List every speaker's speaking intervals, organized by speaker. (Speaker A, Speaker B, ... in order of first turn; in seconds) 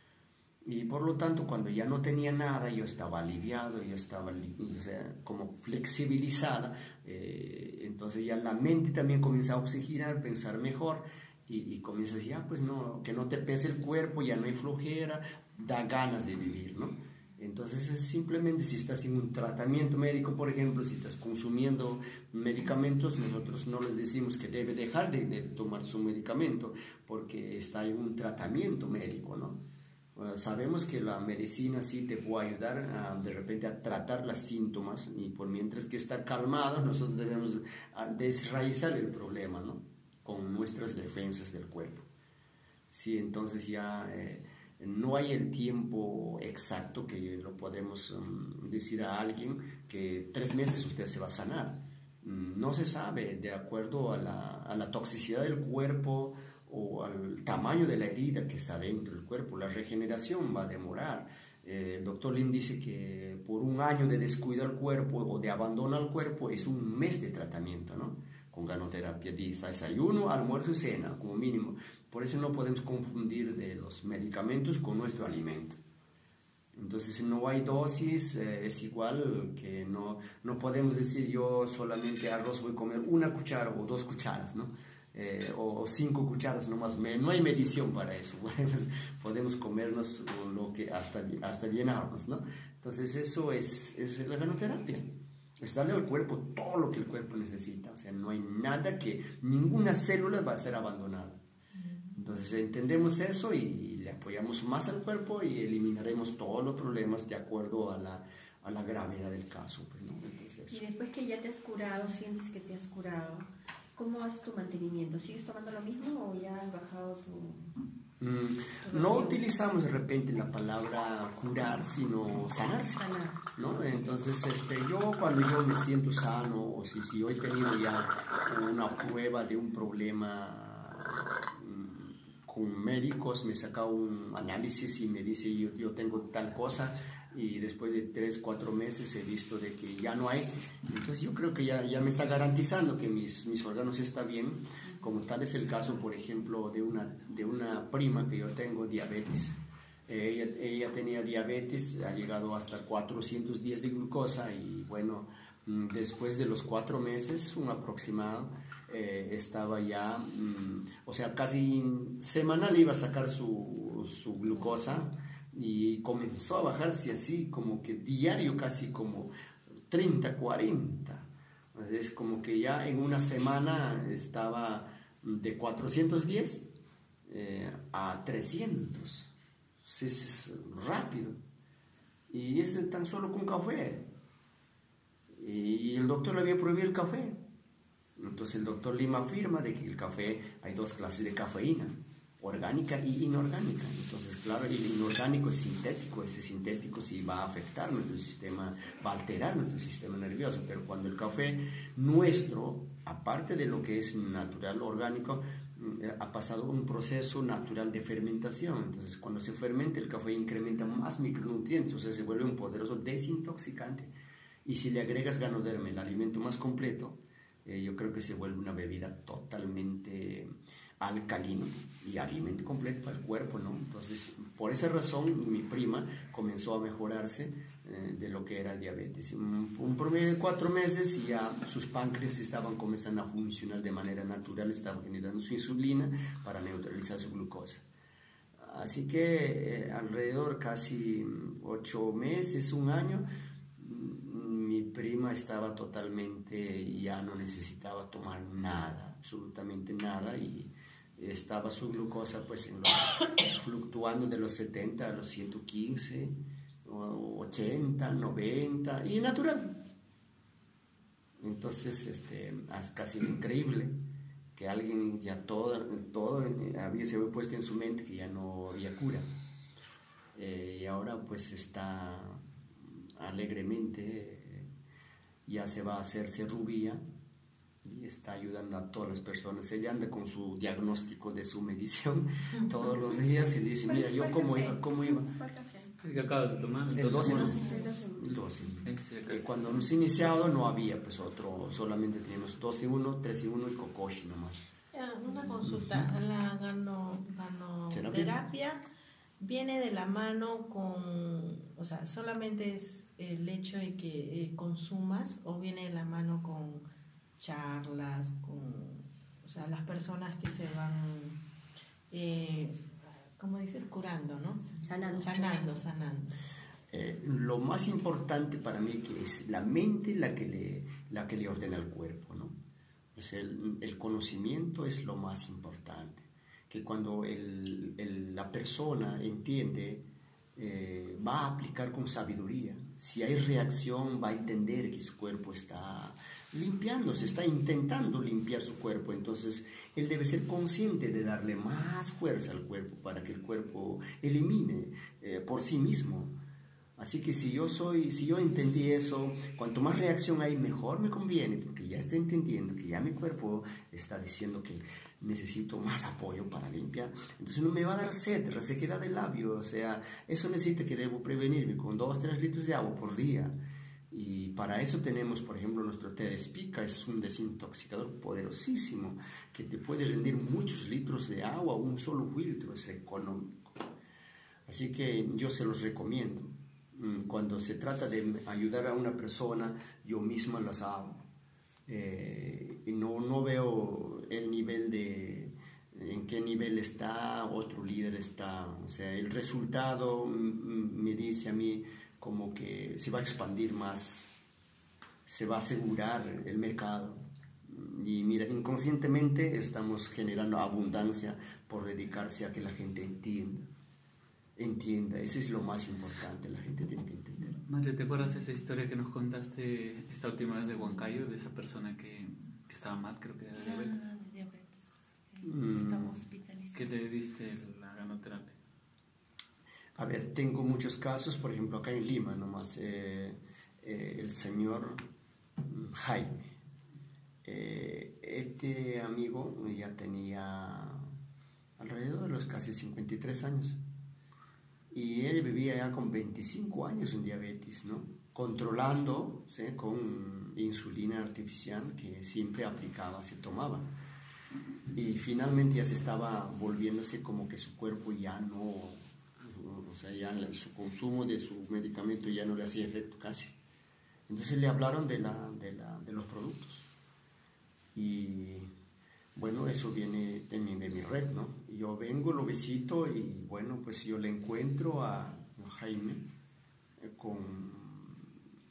Speaker A: 0.7-29.6, 30.1-42.1, 42.9-75.8, 76.8-101.4, 102.1-110.8, 118.2-149.6, 150.1-169.3, 169.9-176.7, 177.3-181.4, 182.3-184.1, 185.4-187.4, 188.2-214.1, 214.7-237.8, 238.6-243.3, 243.8-259.8, 261.4-264.0, 264.6-269.3, 270.4-274.7, 275.5-277.0, 277.8-285.3, 286.9-294.7, 295.6-296.1, 297.9-298.4, 316.9-322.6, 323.1-346.4, 347.0-363.5, 364.1-373.8, 374.7-381.2, 381.9-394.3, 395.3-403.7, 404.6-407.6, 415.4-416.2, 420.0-425.0, 425.7-426.5, 427.4-431.1, 431.8-433.8, 434.9-443.9, 444.9-453.6, 454.3-456.9, 457.9-458.7, 459.4-466.3, 467.0-468.3
Speaker B: 110.7-117.7, 119.0-119.3, 123.0-123.3, 283.9-285.9, 287.2-288.3, 314.8-315.7
Speaker C: 286.0-287.6, 288.8-289.9, 407.6-414.0, 416.7-418.6
Speaker D: 294.9-298.8, 299.4-306.9, 307.4-311.4, 312.1-312.8, 313.4-316.3
Speaker E: 413.6-416.9